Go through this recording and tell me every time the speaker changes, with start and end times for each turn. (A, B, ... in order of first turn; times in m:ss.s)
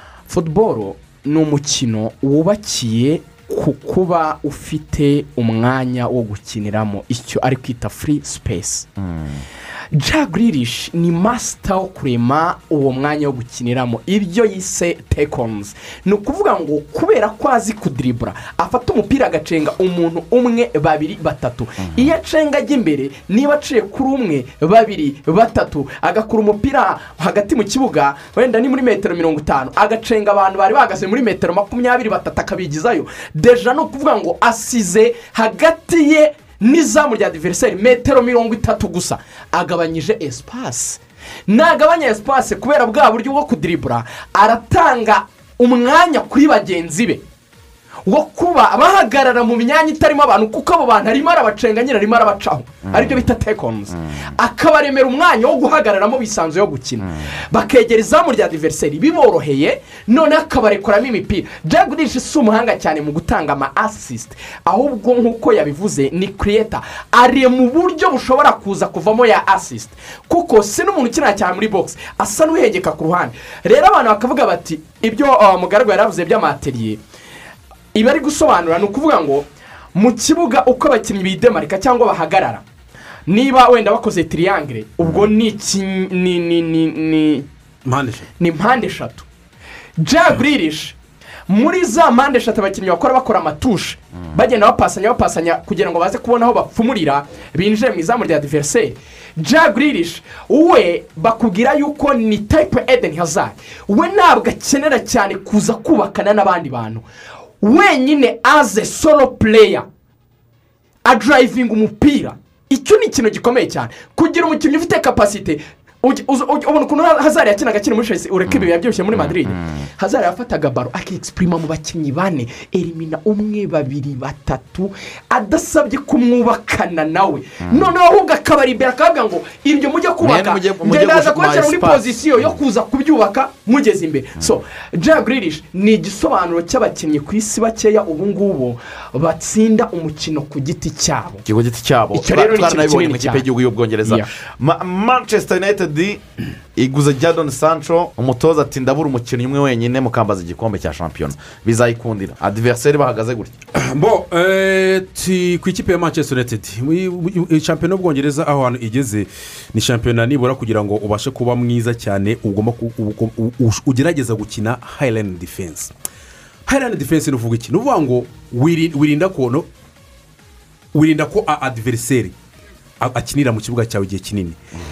0:00.3-0:08.9 A
0:09.0-0:09.4 B
0:09.9-0:47.2 A
0:48.1-1:17.0 A
0:52.9-0:53.2 B
1:17.9-1:22.6 A
1:23.3-1:27.5 A
1:27.8-1:28.3 C
1:28.4-1:29.3 A
1:30.0-1:31.0 A
1:31.5-1:47.0 A
1:47.6-1:49.9 A
1:51.0-2:21.4 A
1:59.2-1:59.6 B
2:10.2-2:12.0 B
2:21.4-2:26.2 B
2:22.1-2:23.5 A
2:24.0-2:24.3 A
2:26.8-2:33.6 B
2:33.8-2:45.9 C
2:46.7-2:49.7 C
2:50.9-2:52.3 C
2:53.0-2:54.6 C